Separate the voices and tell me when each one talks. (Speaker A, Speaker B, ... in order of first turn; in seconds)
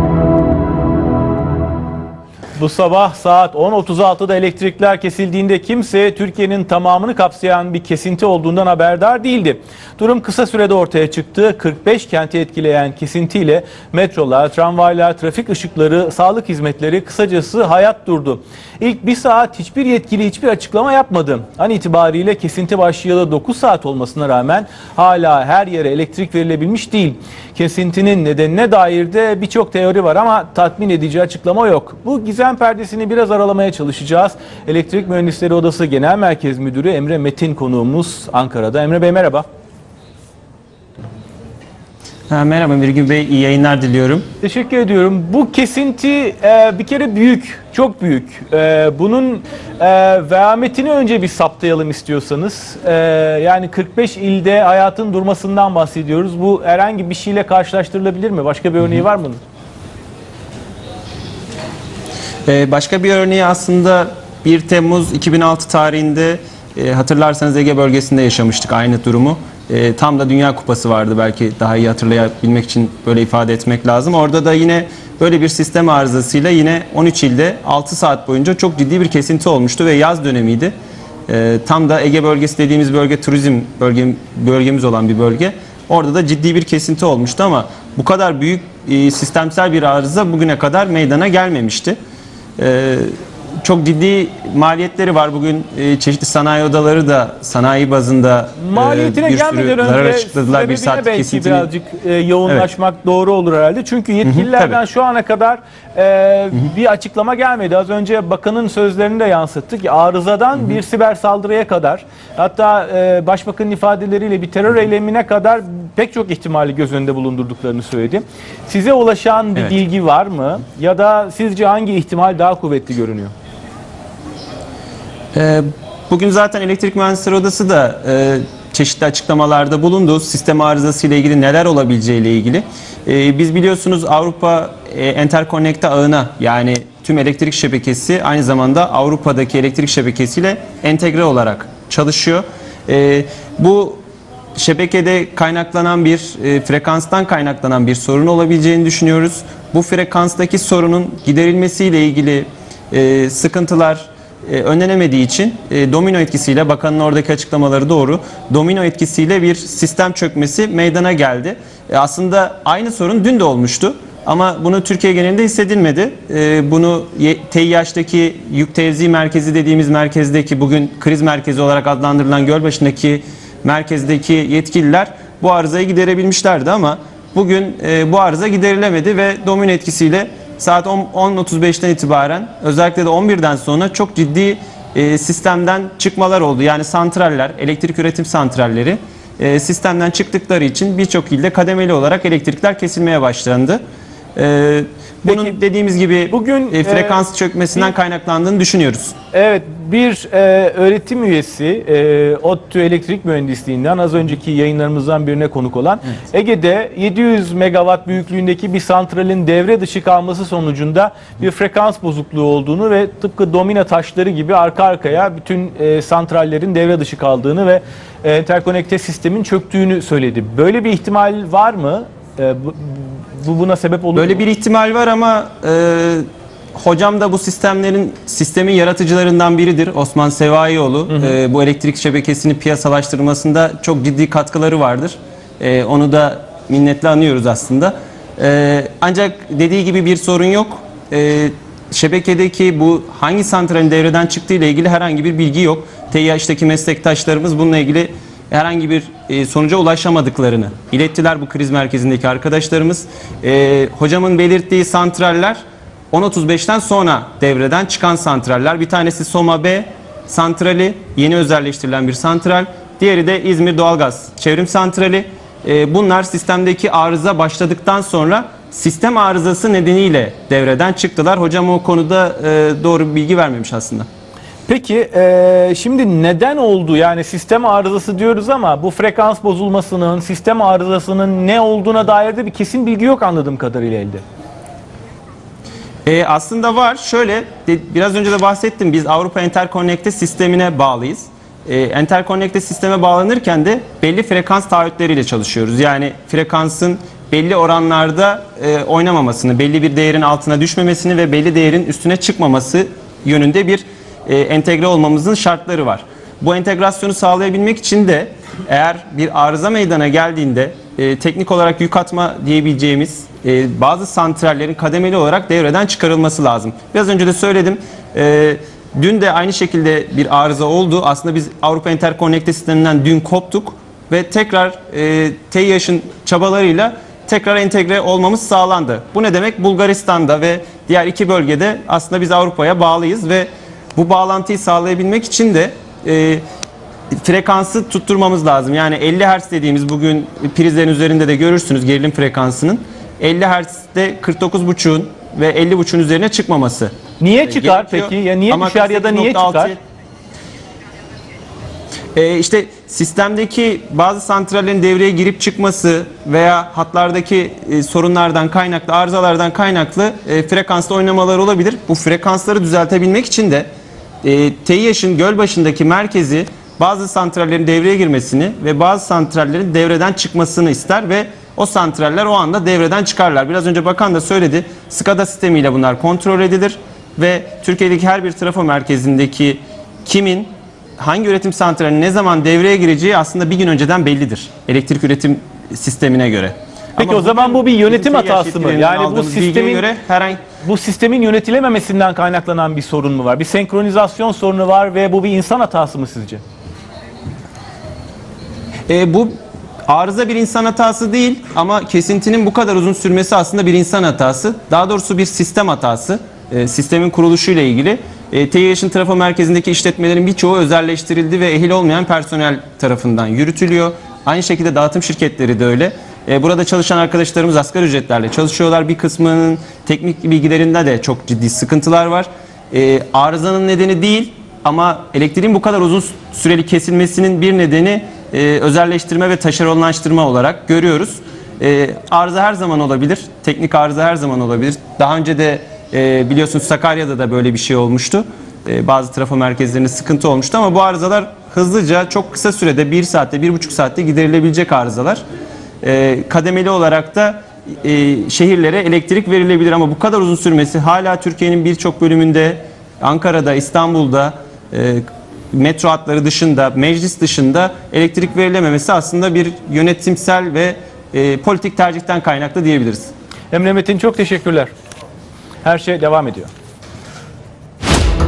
Speaker A: 2.6-39.5, 44.4-59.4, 98.6-123.3, 195.3-195.6, 196.3-197.2, 199.3-224.4, 231.1-231.4, 274.7-284.2, 347.2-349.7, 387.0-389.9, 390.5-396.4, 463.5-464.7, 465.6-466.5
Speaker B: 42.3-44.3, 62.5-80.7, 81.3-92.0, 92.6-93.1, 93.6-101.7, 104.2-104.8, 125.3-144.0, 144.6-193.8, 194.4-199.2, 224.2-255.6, 256.1-274.1, 286.1-336.4, 337.2-349.8, 352.1-363.7, 364.2-390.4, 398.9-399.4, 399.9-445.2, 445.8-463.1